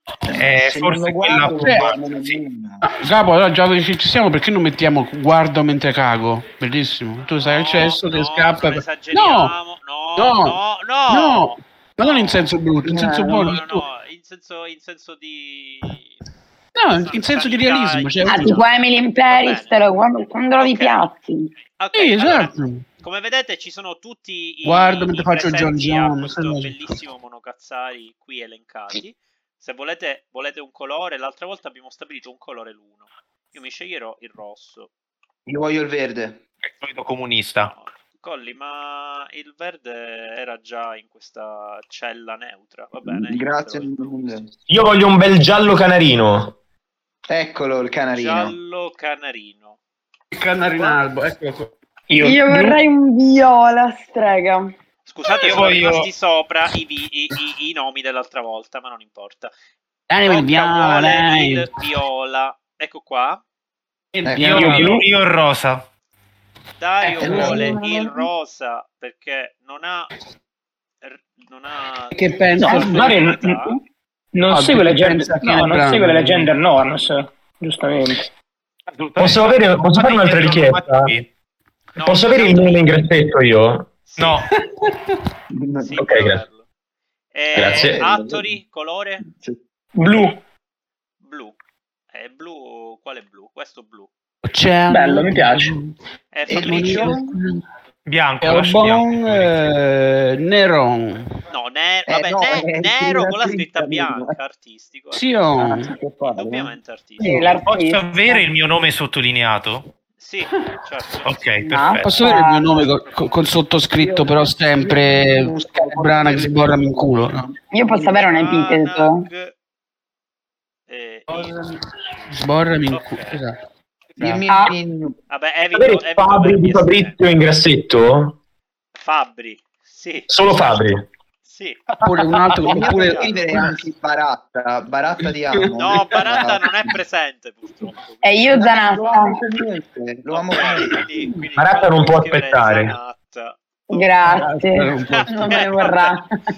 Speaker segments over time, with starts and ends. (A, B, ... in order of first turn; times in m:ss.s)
0:00.3-0:02.8 A
0:00.3-0:02.0 B
0:02.8-0:09.6 C
0:07.4-0:12.5 D
0:10.2-0:10.6 C
0:11.1-0:13.8 C
0:12.8-0:13.6 A
0:13.3-0:16.1 D
0:16.8-0:18.6 C
0:16.9-0:21.1 D
0:18.3-0:21.5 E
0:21.8-0:34.9 D
0:21.9-0:22.8 C
0:24.6-0:27.0 C
0:35.5-0:36.4 A
0:36.6-0:37.7 B
0:37.6-0:44.4 D
0:43.1-0:44.5 A
0:44.7-0:46.6 F
0:47.3-0:48.6 A
0:48.1-0:49.8 D
0:50.3-0:51.7 C
0:52.1-0:52.8 G
0:52.2-0:54.7 E
0:55.1-0:59.5 D
0:55.2-0:56.1 B
1:00.1-1:01.7 C
1:00.2-1:03.4 D
1:04.1-1:04.9 C
1:04.3-1:04.8 A
1:04.4-1:05.9 B
1:04.6-1:05.1 G
1:06.8-1:10.1 D
1:07.0-1:07.8 C
1:07.2-1:08.2 A
1:11.0-1:13.8 D
1:12.1-1:13.1 C
1:12.6-1:13.8 G
1:14.4-1:18.3 G
1:14.5-1:16.5 C
1:18.9-1:21.3 B
1:19.2-1:21.1 F
1:22.0-1:22.9 D
1:22.0-1:23.9 F
1:24.1-1:24.4 D
1:24.2-1:24.5 B
1:25.5-1:26.1 A
1:25.8-1:26.6 D
1:26.0-1:26.4 F
1:27.3-1:29.3 D
1:27.5-1:28.0 F
1:27.6-1:28.6 A
1:29.3-1:29.6 A
1:30.0-1:30.4 G
1:31.2-1:31.6 D
1:32.1-1:34.1 D
1:34.4-1:36.0 C
1:34.9-1:35.8 G
1:36.3-1:37.2 D
1:36.5-1:37.4 A
1:36.5-1:37.6 C
1:38.1-1:39.7 B
1:38.4-1:41.3 C
1:41.5-1:45.2 D
1:42.1-1:44.4 A
1:45.1-1:45.9 C
1:45.6-1:46.8 A
1:46.2-1:47.5 D
1:47.2-1:47.5 C
1:47.2-1:48.4 E
1:47.5-1:49.9 B
1:50.2-1:51.4 D
1:51.2-1:52.4 B
1:51.6-1:52.7 E
1:52.0-1:57.5 C
1:52.4-1:53.5 D
1:53.9-1:56.8 A
1:57.7-1:59.3 E
1:57.9-1:59.5 D
2:00.9-2:01.6 D
2:01.3-2:01.8 C
2:02.2-2:03.4 D
2:02.3-2:03.6 C
2:04.2-2:05.2 A
2:04.5-2:04.7 E
2:05.3-2:07.2 D
2:05.7-2:08.4 F
2:09.0-2:11.9 D
2:10.3-2:11.1 F
2:12.0-2:13.7 C
2:12.6-2:16.9 A
2:12.7-2:13.5 D
2:15.6-2:16.2 C
2:15.8-2:19.3 D
2:18.2-2:19.3 E
2:18.6-2:21.1 A
2:20.3-2:24.5 D
2:21.6-2:23.0 F
2:23.9-2:26.3 E
2:24.3-2:25.6 C
2:25.1-2:26.2 D